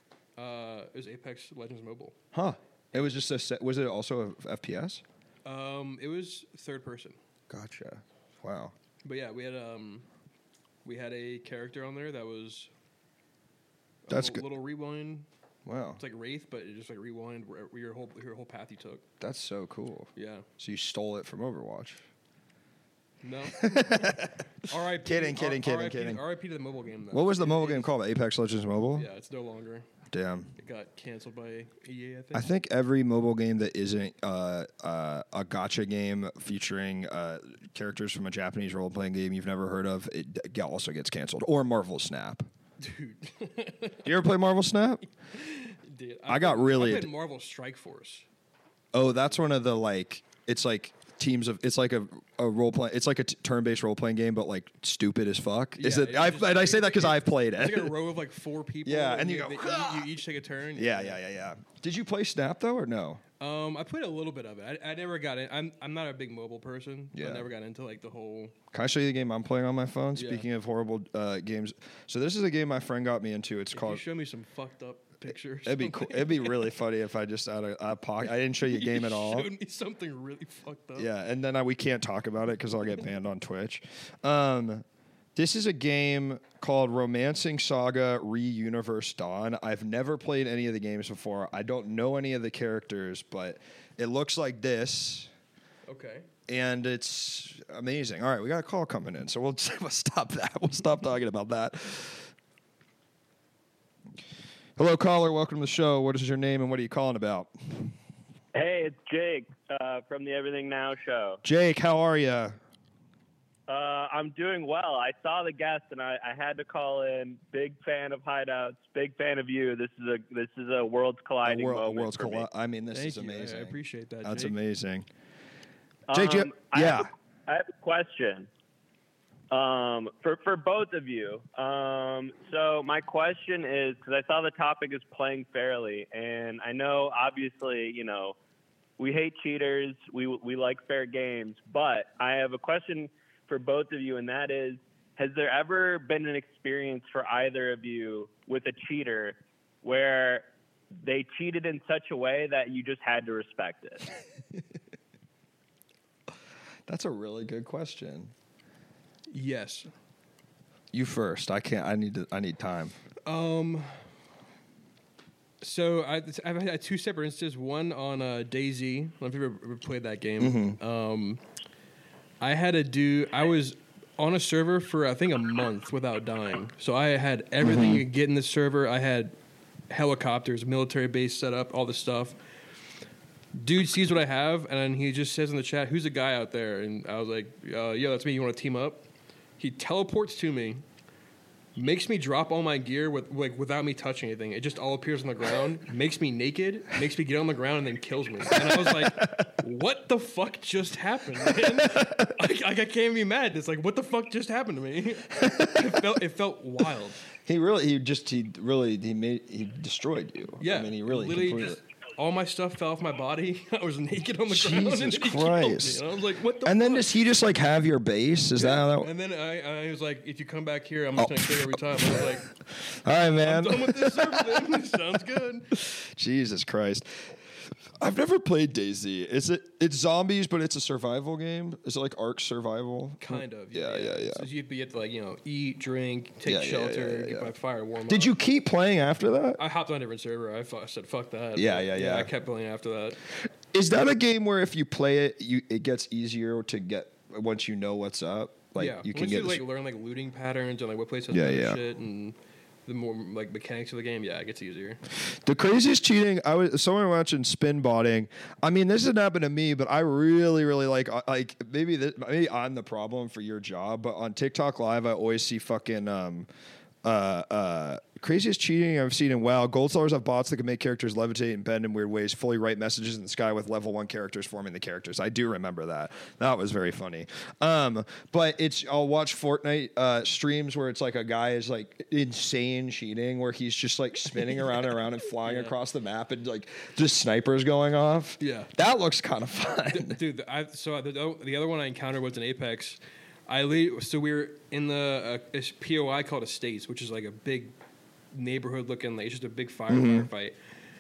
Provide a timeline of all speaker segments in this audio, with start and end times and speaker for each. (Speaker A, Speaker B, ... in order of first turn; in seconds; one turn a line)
Speaker A: 0.4-2.2
Speaker B: 2.3-5.0
Speaker A: 5.5-7.2
Speaker B: 7.5-8.7
Speaker A: 9.0-10.1
Speaker A: 10.8-12.7
Speaker A: 14.1-15.3
Speaker B: 14.1-14.5
Speaker B: 15.7-16.0
Speaker A: 16.0-19.1
Speaker B: 19.2-22.0
Speaker A: 20.2-20.5
Speaker A: 23.2-27.9
Speaker B: 23.6-24.4
Speaker B: 25.0-26.2
Speaker B: 27.1-29.1
Speaker A: 28.9-29.9
Speaker B: 30.1-30.5
Speaker A: 30.6-32.5
Speaker B: 32.3-42.5
Speaker A: 42.8-44.1
Speaker B: 44.0-45.0
Speaker A: 45.3-48.3
Speaker B: 46.3-47.1
Speaker B: 48.9-57.9
Speaker A: 55.8-61.2
Speaker B: 58.9-60.1
Speaker B: 60.8-63.2
Speaker A: 63.4-68.5
Speaker B: 67.1-67.5
Speaker B: 68.7-74.0
Speaker A: 70.2-70.5
Speaker A: 73.7-76.7
Speaker B: 75.7-79.5
Speaker A: 78.4-81.1
Speaker B: 81.0-84.8
Speaker B: 85.4-95.3
Speaker A: 95.9-96.3
Speaker B: 96.5-102.3
Speaker B: 104.8-107.9
Speaker C: 108.5-111.4
Speaker B: 111.4-112.6
Speaker C: 113.7-122.5
Speaker B: 121.4-125.1
Speaker A: 122.9-124.6
Speaker C: 126.1-128.5
Speaker B: 126.1-127.1
Speaker C: 129.5-138.3
Speaker C: 139.0-150.4
Speaker C: 151.0-154.1
Speaker B: 156.9-158.3
Speaker A: 159.3-159.9
Speaker B: 160.9-162.9
Speaker A: 163.3-164.0
Speaker A: 165.6-171.4
Speaker B: 170.4-170.8
Speaker A: 172.4-179.3
Speaker B: 177.6-178.0
Speaker A: 179.9-182.4
Speaker A: 183.6-189.1
Speaker A: 189.6-190.8
Speaker A: 191.8-207.2
Speaker B: 198.7-199.5
Speaker B: 201.9-202.3
Speaker B: 205.4-206.1
Speaker B: 207.4-211.8
Speaker A: 210.6-217.1
Speaker B: 214.5-216.0
Speaker B: 216.7-219.1
Speaker A: 218.6-222.5
Speaker B: 221.2-224.7
Speaker A: 223.4-225.7
Speaker B: 225.7-227.1
Speaker B: 228.0-234.5
Speaker A: 233.2-238.3
Speaker B: 236.4-237.5
Speaker B: 238.1-239.6
Speaker A: 239.6-243.2
Speaker B: 241.6-242.3
Speaker B: 243.7-249.6
Speaker A: 248.8-255.0
Speaker B: 251.3-251.8
Speaker B: 255.2-266.5
Speaker B: 267.0-290.2
Speaker A: 285.4-285.8
Speaker A: 288.4-288.7
Speaker A: 289.9-297.7
Speaker A: 298.3-300.6
Speaker B: 299.9-300.3